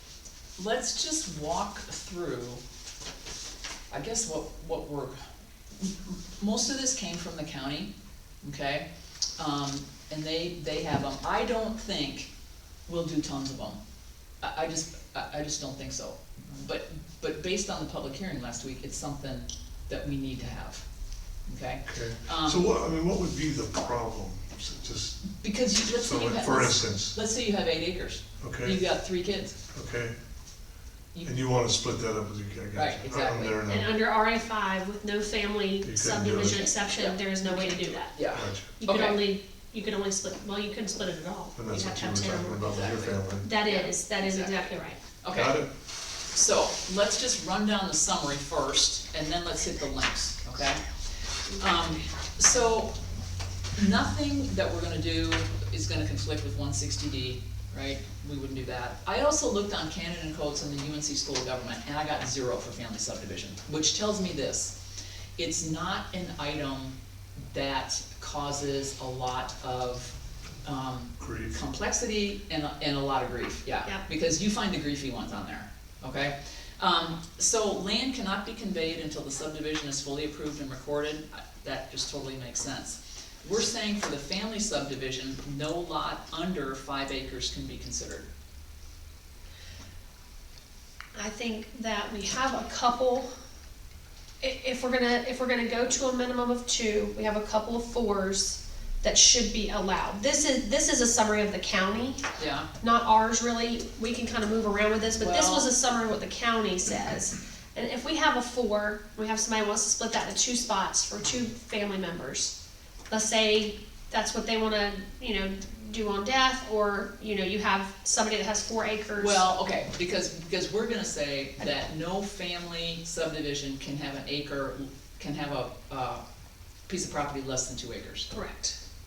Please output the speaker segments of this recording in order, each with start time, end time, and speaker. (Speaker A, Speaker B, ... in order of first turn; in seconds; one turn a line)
Speaker A: 0.6-2.6
Speaker A: 3.9-5.2
Speaker A: 5.8-8.9
Speaker A: 9.4-12.3
Speaker A: 12.9-13.8
Speaker A: 14.4-20.9
Speaker A: 21.5-22.7
Speaker B: 21.9-27.2
Speaker A: 25.4-29.6
Speaker B: 28.4-28.9
Speaker B: 29.7-30.2
Speaker B: 31.2-33.9
Speaker A: 32.7-33.6
Speaker C: 33.7-38.2
Speaker B: 35.8-36.7
Speaker A: 36.5-39.3
Speaker B: 38.3-38.7
Speaker C: 38.7-42.7
Speaker B: 41.5-43.5
Speaker A: 42.6-45.7
Speaker C: 43.3-45.0
Speaker B: 45.3-45.7
Speaker A: 46.2-53.0
Speaker A: 53.8-64.8
Speaker A: 65.4-67.0
Speaker A: 67.5-88.3
Speaker B: 71.2-71.6
Speaker C: 91.2-93.3
Speaker C: 94.4-102.2
Speaker A: 102.4-102.7
Speaker C: 102.8-112.6
Speaker A: 105.2-105.7
Speaker C: 113.1-119.5
Speaker A: 119.2-126.2
Speaker A: 126.9-128.3
Speaker C: 128.3-128.8